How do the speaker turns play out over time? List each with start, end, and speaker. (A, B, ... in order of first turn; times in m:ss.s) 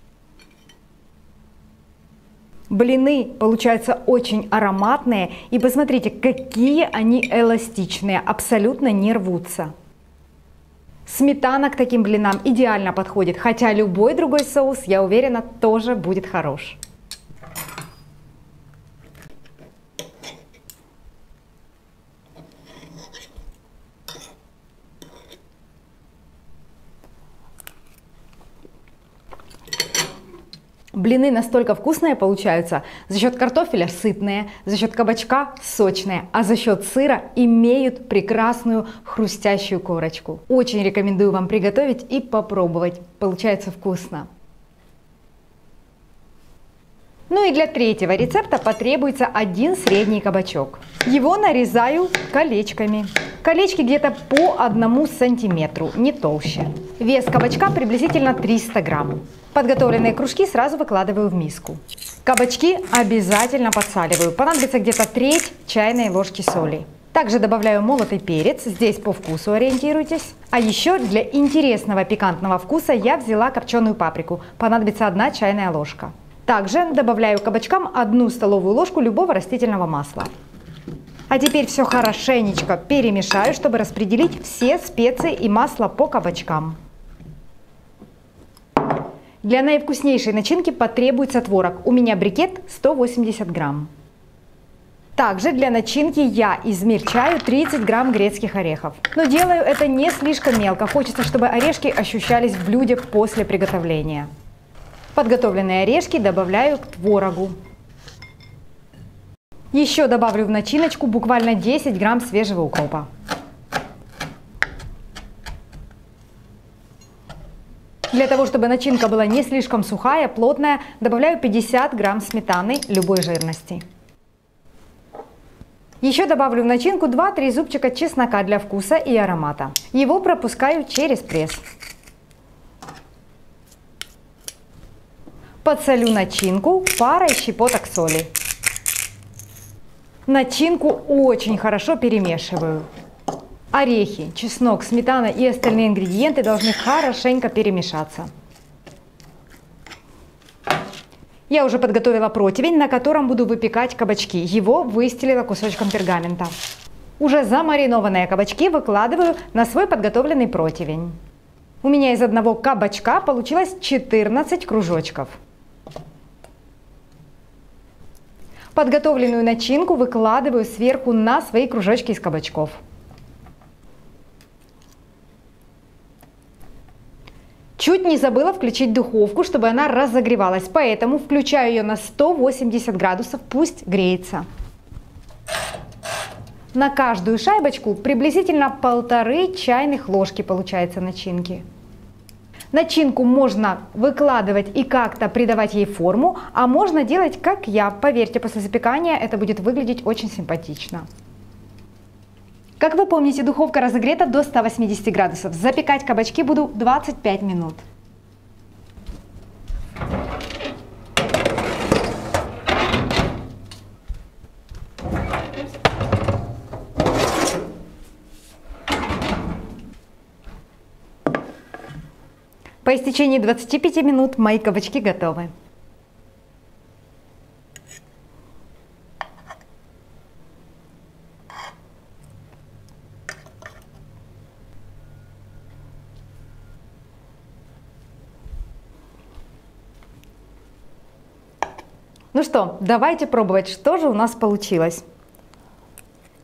0:02.7-0:09.7 A
0:11.1-0:16.8 A
0:30.9-0:44.3 A
0:47.3-1:20.3 A
1:21.3-1:26.8 A
1:29.4-1:33.9 A
1:35.2-1:44.3 A
1:45.1-1:47.6 A
1:49.7-1:53.1 A
1:58.1-2:03.8 A
2:06.0-2:11.6 A
2:15.6-2:18.3 A
2:20.3-2:22.9 A
2:23.7-2:28.3 A
2:31.5-2:36.5 A
2:37.2-2:41.2 A
2:41.8-2:45.4 A
2:48.7-2:52.8 A
2:57.8-3:04.5 A
3:06.7-3:11.6 A
3:12.7-3:21.1 A
3:22.8-3:27.8 A
3:42.8-3:45.5 A
4:02.3-4:05.0 A